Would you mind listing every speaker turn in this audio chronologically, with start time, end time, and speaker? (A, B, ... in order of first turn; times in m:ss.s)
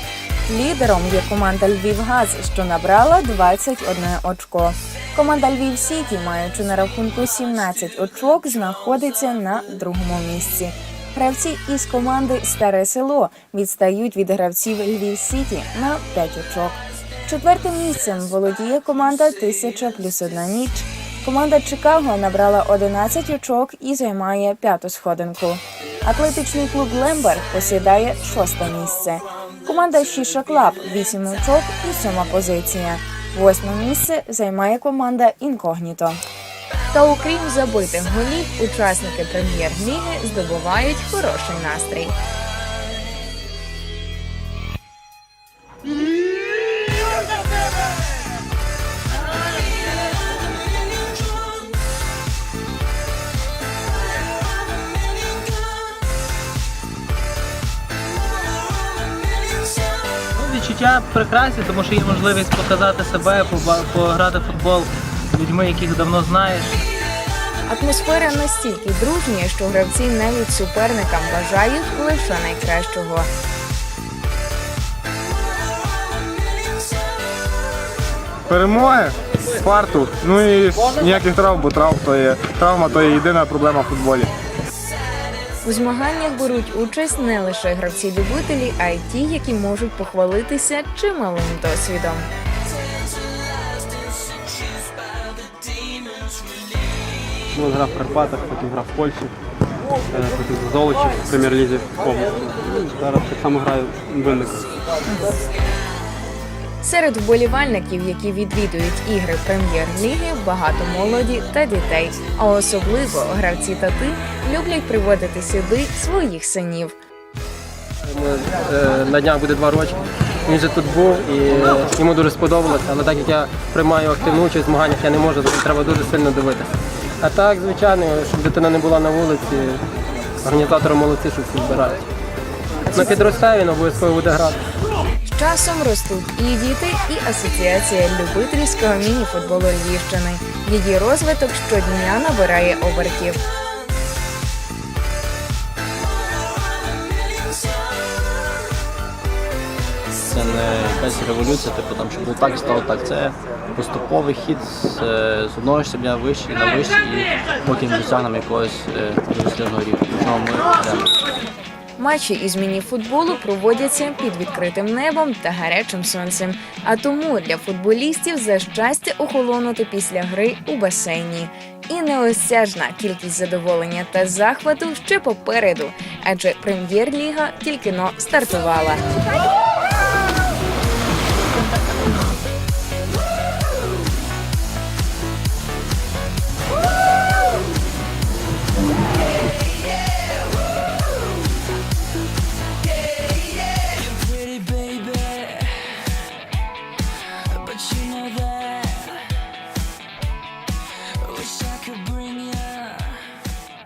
0:00.5-0:36.2 A
0:36.9-0:42.2 A
1:00.4-1:04.8 B
1:01.1-1:06.8 C
1:05.9-1:06.4 B
1:07.7-1:13.3 A
1:18.5-1:24.3 D
1:25.6-1:32.3 A
1:37.5-1:39.3 E
1:40.1-1:44.7 E
1:46.8-1:57.0 A
1:58.0-2:06.7 B
2:07.2-2:09.8 B
2:10.4-2:12.0 B
2:12.9-2:14.6 B
2:15.3-2:23.4 A
2:30.2-2:41.1 F
2:42.0-2:59.1 A
3:13.2-3:16.0 C
3:17.5-3:19.2 C
3:21.2-3:23.3 C